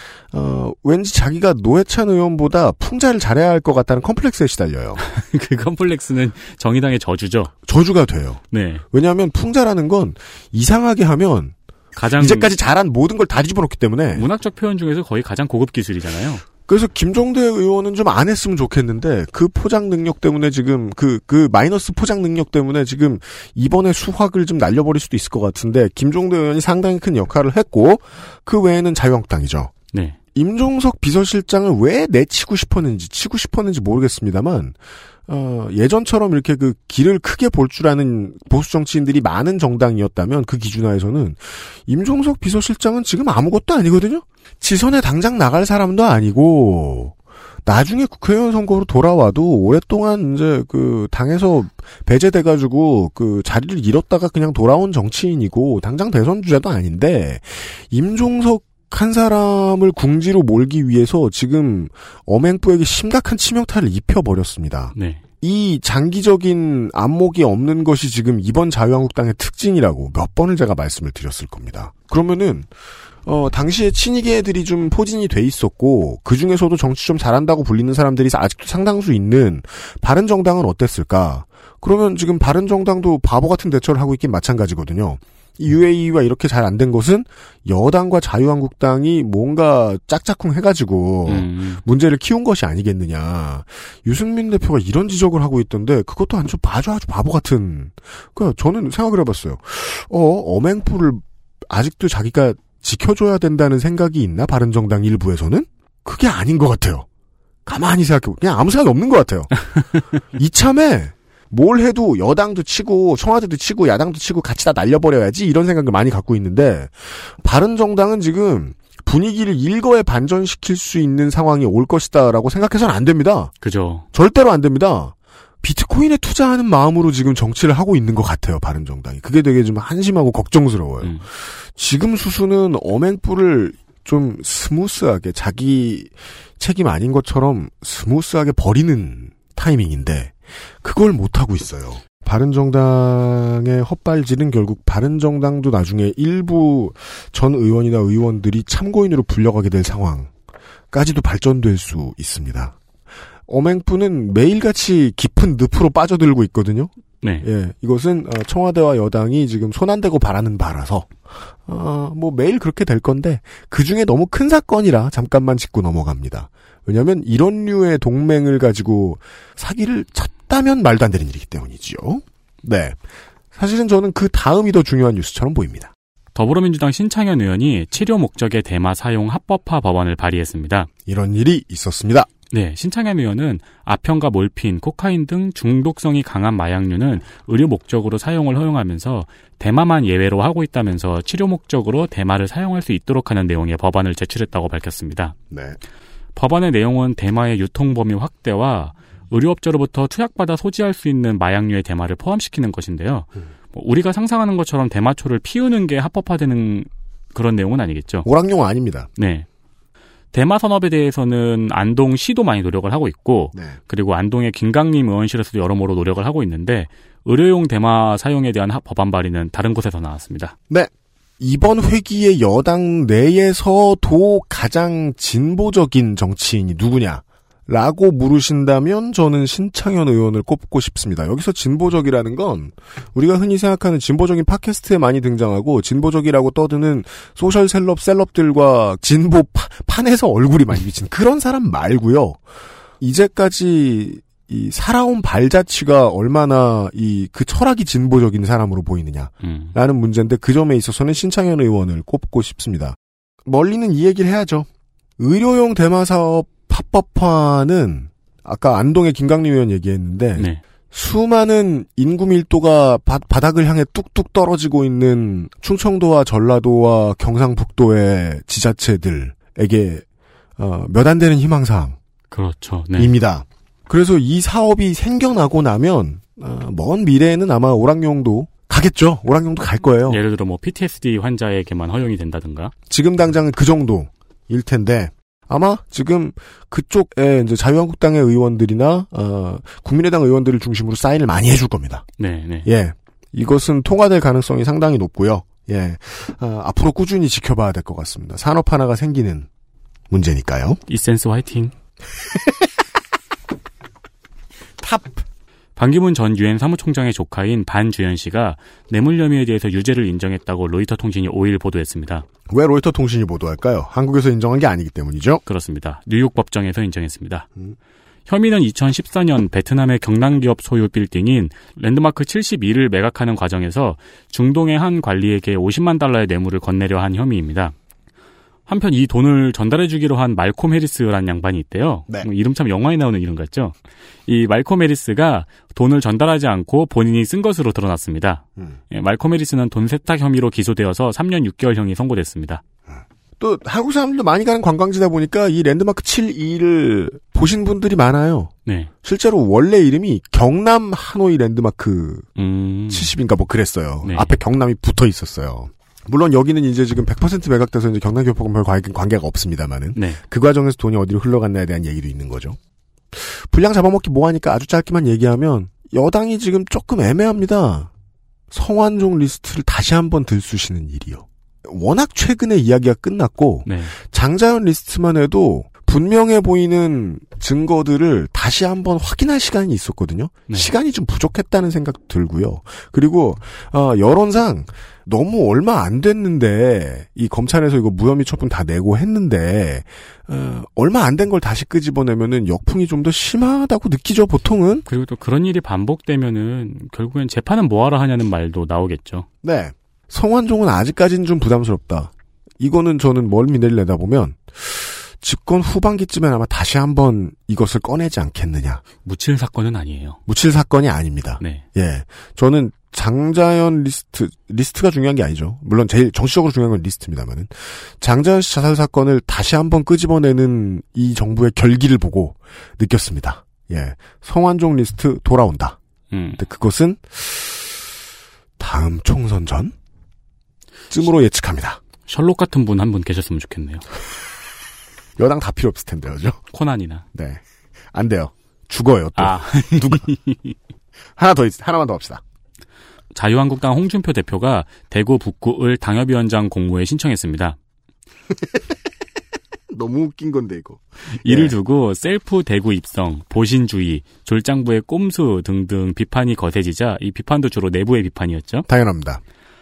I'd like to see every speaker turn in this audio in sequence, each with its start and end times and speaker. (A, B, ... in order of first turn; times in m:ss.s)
0:00.3-0:05.0 A
0:05.0-0:07.5 B
0:07.6-0:08.4 A
0:08.5-0:08.8 B
0:08.9-0:11.5 A
0:12.0-0:12.5 B
0:12.1-0:14.3 A
0:14.1-0:16.4 B
0:16.7-0:29.7 A
0:30.3-0:34.8 A
0:35.3-0:47.1 A
0:47.6-1:12.7 A
1:04.9-1:05.2 B
1:13.2-1:47.0 A
1:31.2-1:31.8 B
1:47.6-1:49.5 A
1:50.3-2:03.5 A
2:03.6-2:04.0 B
2:04.1-2:11.1 A
2:11.7-2:30.3 A
2:30.9-2:32.8 A
2:33.5-2:41.1 A
2:41.6-2:53.0 A
2:53.5-2:55.9 A
2:56.3-3:00.9 B
3:01.0-3:02.3 A
3:02.5-3:15.3 B
3:15.5-3:15.8 A
3:16.4-3:28.3 B
3:28.2-3:29.1 A
3:29.2-3:29.4 B
3:30.3-3:40.5 B
3:40.7-4:02.4 A
4:03.0-4:14.7 A
4:09.4-4:09.7 B
4:15.2-4:30.0 A
4:30.6-4:32.0 A
4:32.3-4:33.1 B
4:33.0-4:40.2 A
4:40.0-4:42.7 B
4:42.9-4:52.0 A
4:52.2-4:52.7 B
4:52.6-4:59.5 A
5:00.1-5:00.8 A
5:00.9-5:01.7 B
5:04.8-5:05.2 A
5:05.8-5:12.2 B
5:12.5-5:15.4 A
5:15.4-5:17.5 B
5:18.3-5:27.7 B
5:28.7-5:33.7 B
5:34.3-5:42.6 B
5:42.9-5:48.5 A
5:48.6-5:48.9 B
5:49.0-5:52.3 A
5:52.4-5:53.1 B
5:52.9-6:02.6 A
5:54.0-5:54.4 B
5:59.9-6:00.2 B
6:03.1-6:07.9 A
6:08.5-6:34.8 A
6:13.6-6:13.9 B
6:34.9-6:39.2 B
6:39.4-6:48.8 A
6:49.0-6:50.2 B
6:50.3-7:05.8 A
7:06.1-7:06.4 B
7:06.4-7:07.8 A
7:08.6-7:09.7 A
7:10.9-7:11.8 A
7:12.1-7:13.8 B
7:15.2-7:16.4 A
7:16.5-7:17.0 B
7:17.1-7:17.4 A
7:17.9-7:20.1 A
7:19.2-7:20.5 B
7:21.2-7:22.2 A
7:23.1-7:27.6 B
7:29.7-7:31.5 A
7:31.2-7:38.7 B
7:38.7-7:39.2 A